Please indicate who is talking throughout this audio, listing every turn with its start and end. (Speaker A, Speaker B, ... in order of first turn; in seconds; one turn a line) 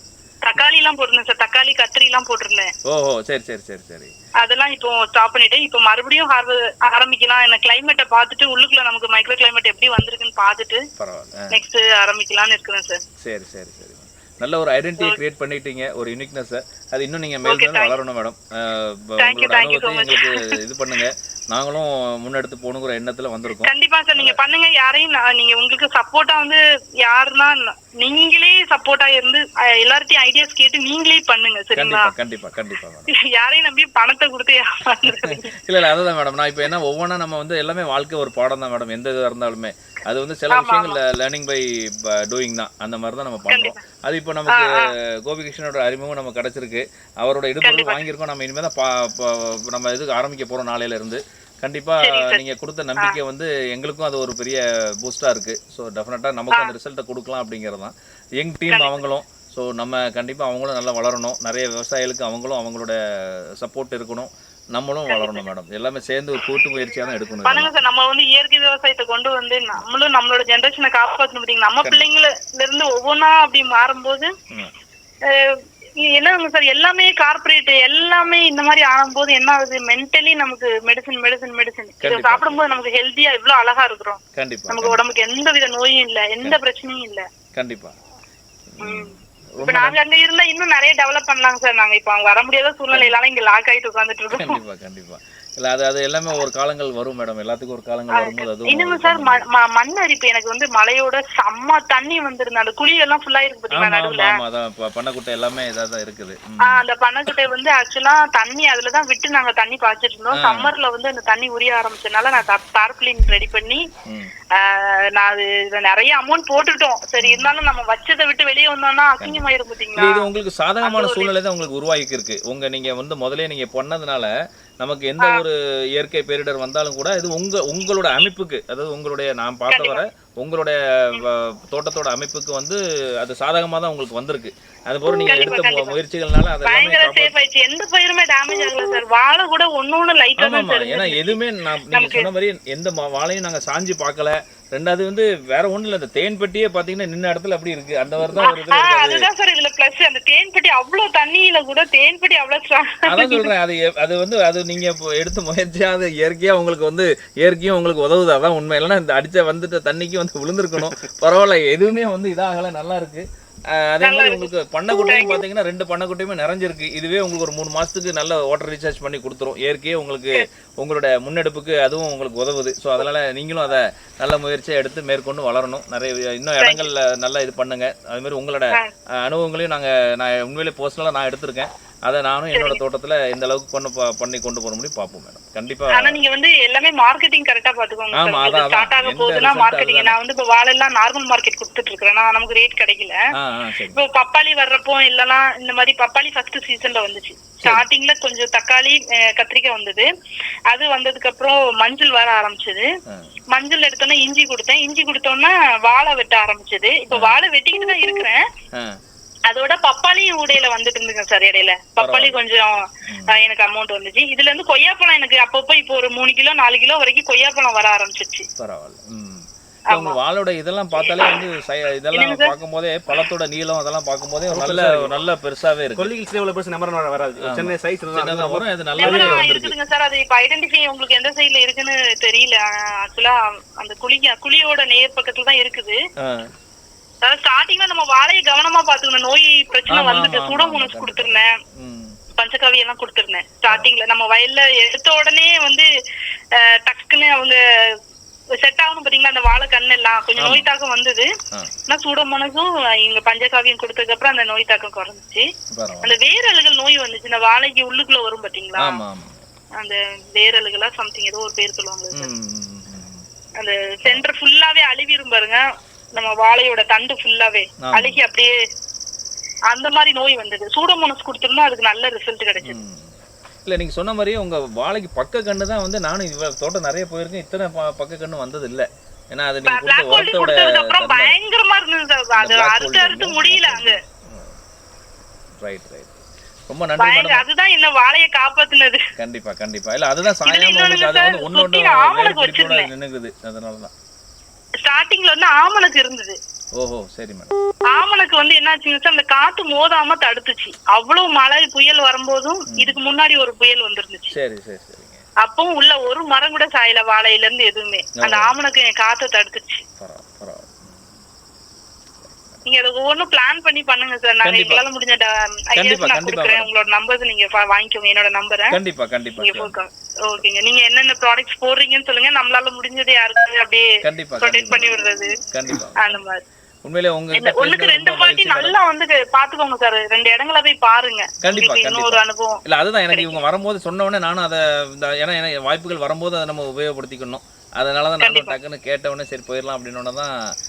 Speaker A: 0.4-2.7
Speaker B: 2.8-4.1
Speaker A: 4.4-10.8
Speaker B: 11.0-11.6
Speaker A: 11.5-13.0
Speaker B: 13.2-24.4
Speaker A: 17.4-17.9
Speaker A: 19.2-20.5
Speaker A: 23.6-32.1
Speaker B: 31.8-33.1
Speaker A: 33.1-35.7
Speaker B: 35.0-63.0
Speaker A: 40.5-41.0
Speaker A: 43.5-43.8
Speaker A: 44.5-44.9
Speaker A: 47.6-48.0
Speaker A: 52.0-52.4
Speaker A: 58.7-59.0
Speaker B: 63.6-67.7
Speaker A: 65.1-65.4
Speaker A: 67.4-74.3
Speaker B: 71.8-72.1
Speaker A: 75.2-87.3
Speaker B: 82.0-82.6
Speaker B: 84.3-85.0
Speaker B: 87.5-88.0
Speaker B: 88.7-90.0
Speaker A: 88.8-94.6
Speaker B: 92.9-93.2
Speaker B: 94.3-99.4
Speaker A: 98.1-104.3
Speaker B: 103.7-107.3
Speaker A: 106.6-113.8
Speaker B: 110.3-110.7
Speaker B: 114.0-114.3
Speaker A: 114.5-120.3
Speaker B: 117.2-117.5
Speaker B: 119.2-137.3
Speaker A: 120.8-121.3
Speaker A: 129.7-130.0
Speaker A: 135.2-136.0
Speaker A: 136.6-141.4
Speaker B: 140.4-149.3
Speaker A: 141.9-142.3
Speaker A: 148.4-153.5
Speaker B: 153.1-186.2
Speaker A: 164.0-165.4
Speaker A: 176.6-176.9
Speaker A: 182.5-182.8
Speaker A: 185.9-193.2
Speaker B: 188.1-190.2
Speaker B: 193.3-194.0
Speaker A: 193.9-200.1
Speaker A: 200.7-202.9
Speaker B: 203.1-203.4
Speaker A: 203.5-208.4
Speaker B: 207.1-207.4
Speaker B: 208.7-209.0
Speaker A: 209.5-212.7
Speaker B: 212.0-212.4
Speaker B: 213.0-213.4
Speaker A: 213.3-218.5
Speaker B: 218.6-226.1
Speaker A: 219.9-220.2
Speaker A: 221.1-221.3
Speaker A: 222.1-222.5
Speaker C: 224.5-225.1
Speaker C: 225.9-229.4
Speaker B: 227.4-229.7
Speaker A: 229.0-236.0
Speaker B: 236.2-236.5
Speaker A: 237.2-241.5
Speaker B: 239.9-242.2
Speaker A: 242.3-245.9
Speaker A: 246.5-248.0
Speaker A: 248.6-251.3
Speaker B: 250.4-250.7
Speaker A: 251.9-255.5
Speaker B: 255.7-256.2
Speaker A: 256.0-259.0
Speaker B: 258.8-259.4
Speaker A: 259.8-262.3
Speaker B: 262.1-263.2
Speaker A: 263.6-265.6
Speaker A: 266.1-268.5
Speaker B: 267.8-268.2
Speaker A: 269.7-272.8
Speaker B: 272.6-281.4
Speaker A: 279.6-284.0
Speaker B: 282.4-284.6
Speaker B: 285.6-287.4
Speaker A: 287.0-289.0
Speaker B: 289.2-293.9
Speaker A: 290.4-292.9
Speaker A: 294.8-296.4
Speaker B: 296.8-297.5
Speaker A: 297.9-304.4
Speaker B: 302.7-303.0
Speaker B: 304.3-305.2
Speaker A: 305.4-309.8
Speaker B: 308.2-308.5
Speaker B: 310.0-311.1
Speaker B: 312.2-312.6
Speaker A: 312.6-318.8
Speaker B: 314.4-314.8
Speaker B: 315.7-316.7
Speaker B: 318.7-319.8
Speaker A: 319.4-323.9
Speaker B: 324.0-324.9
Speaker A: 324.4-325.4
Speaker B: 325.5-326.2
Speaker A: 325.9-326.4
Speaker B: 326.8-328.8
Speaker A: 327.3-333.4
Speaker B: 331.4-340.3
Speaker A: 338.2-338.6